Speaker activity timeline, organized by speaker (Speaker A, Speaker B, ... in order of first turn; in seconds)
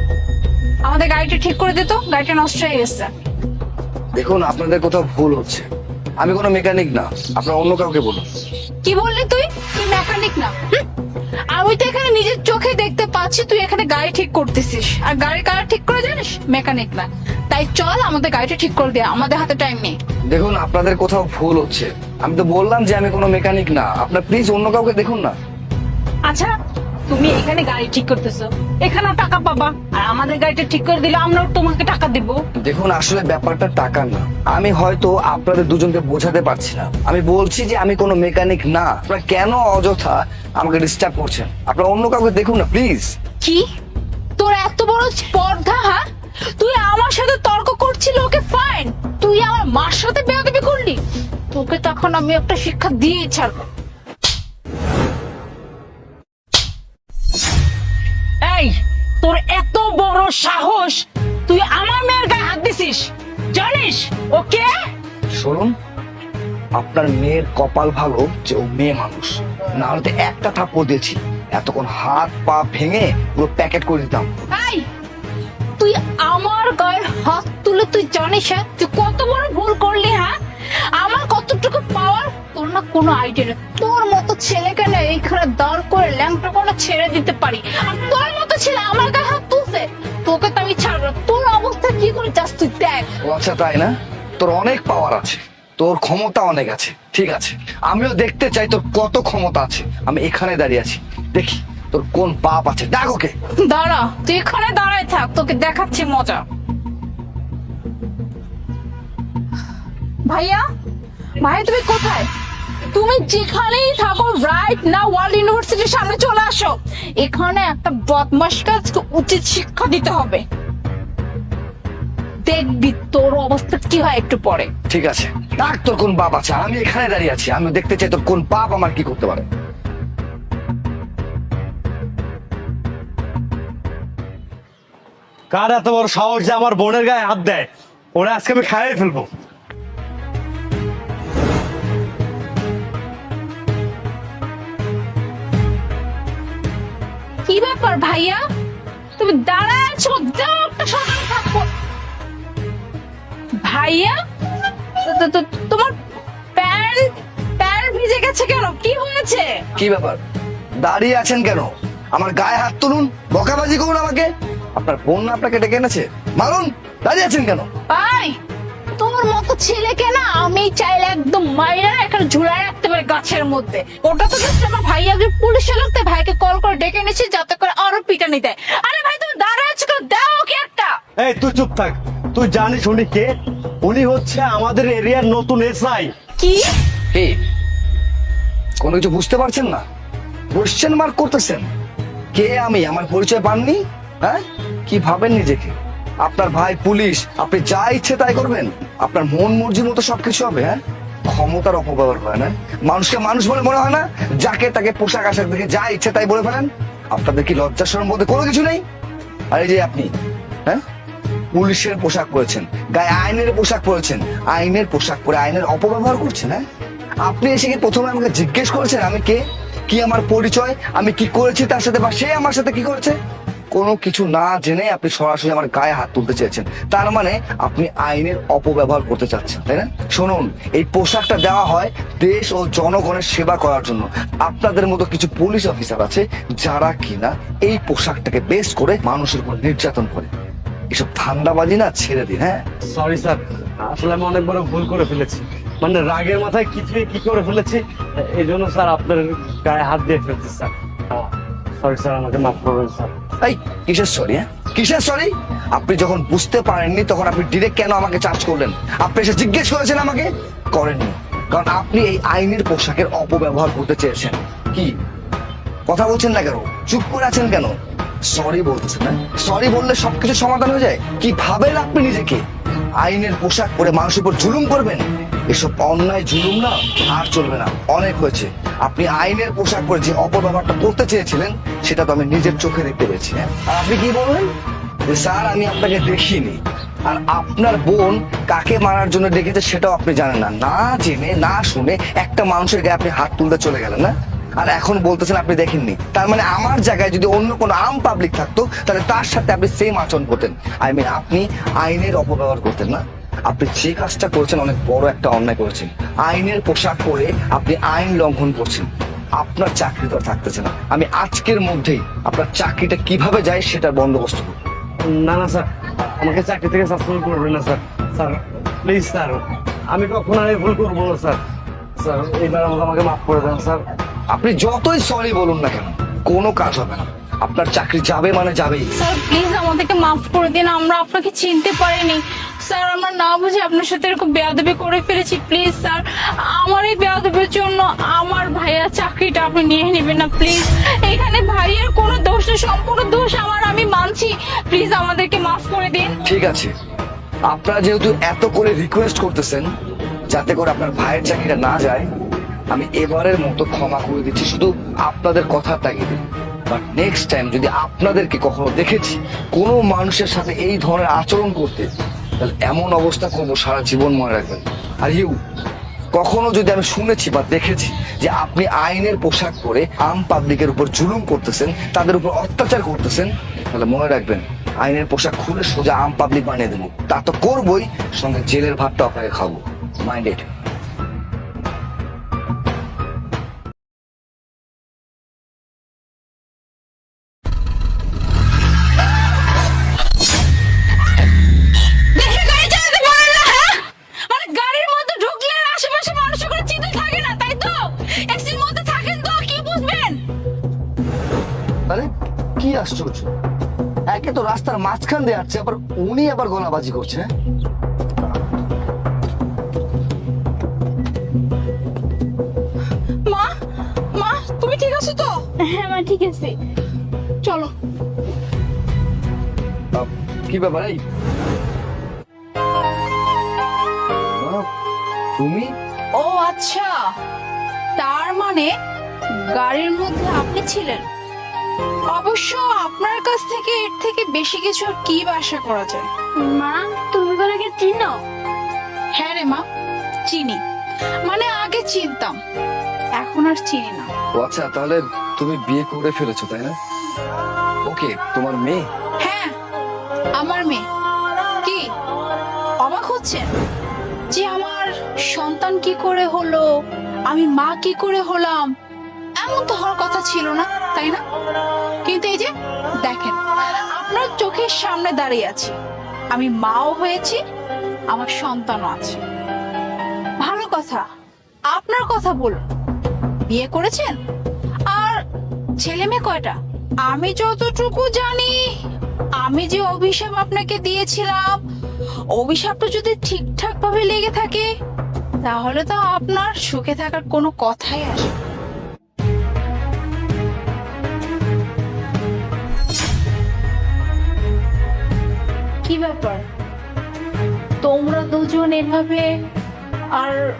Speaker A: 0.8-3.1, 8.8-10.8, 11.5-19.9, 27.2-29.8, 44.4-46.0, 46.5-53.6, 59.3-61.0, 61.5-62.7, 63.6-64.6, 74.5-74.8, 75.8-80.3, 81.0-93.1, 103.6-106.4, 110.3-110.6, 111.4-112.3, 112.9-120.4, 122.5-124.7, 147.4-148.4, 149.2-151.7, 153.6-154.2, 155.0-155.9, 156.6-159.6, 167.9-168.4, 168.9-180.9, 186.4-186.7, 329.0-346.1, 392.1-400.2, 414.1-416.6, 417.4-417.7, 426.1-426.9, 428.0-428.7, 429.5-431.1, 432.1-436.1, 436.6-438.0, 439.2-439.6, 440.3-440.6, 441.2-442.4, 443.2-444.1, 449.2-449.5, 450.4-450.8, 452.8-453.5, 454.3-456.6, 457.3-458.7, 459.4-461.2, 462.0-462.5, 463.0-463.4, 463.9-465.7, 466.3-467.4, 468.1-469.2, 470.4-471.0, 471.7-472.6, 473.5-474.1, 474.9-475.2, 475.8-476.6, 477.1-478.6, 479.4-481.6, 482.3-484.6, 485.4-488.3, 495.8-496.4, 497.8-499.3, 500.1-500.4
Speaker B: 4.2-5.7, 6.2-8.3, 20.3-25.3, 32.6-43.1, 65.3-65.7, 66.8-74.3, 93.2-103.3, 124.9-129.5, 159.8-160.2, 160.8-167.7, 188.8-189.8, 190.5-191.7, 192.3-208.8, 209.5-210.1, 211.5-216.6, 217.2-223.2, 223.7-240.3, 240.9-242.6, 253.4-264.9, 265.9-267.7, 268.3-272.4, 273.0-284.5, 285.1-314.6, 324.3-328.9, 346.2-346.7, 347.5-349.7, 350.3-352.1, 352.7-361.9, 362.4-365.4, 366.1-380.5, 401.9-403.3, 404.1-407.3, 419.9-421.0, 424.3-424.6, 425.4-425.7, 444.4-446.8, 447.9-448.8
Speaker C: 59.2-61.0, 61.5-63.0, 63.6-64.6
Speaker D: 135.5-139.3, 181.2-186.1, 242.9-253.1, 315.0-321.4, 322.0-323.8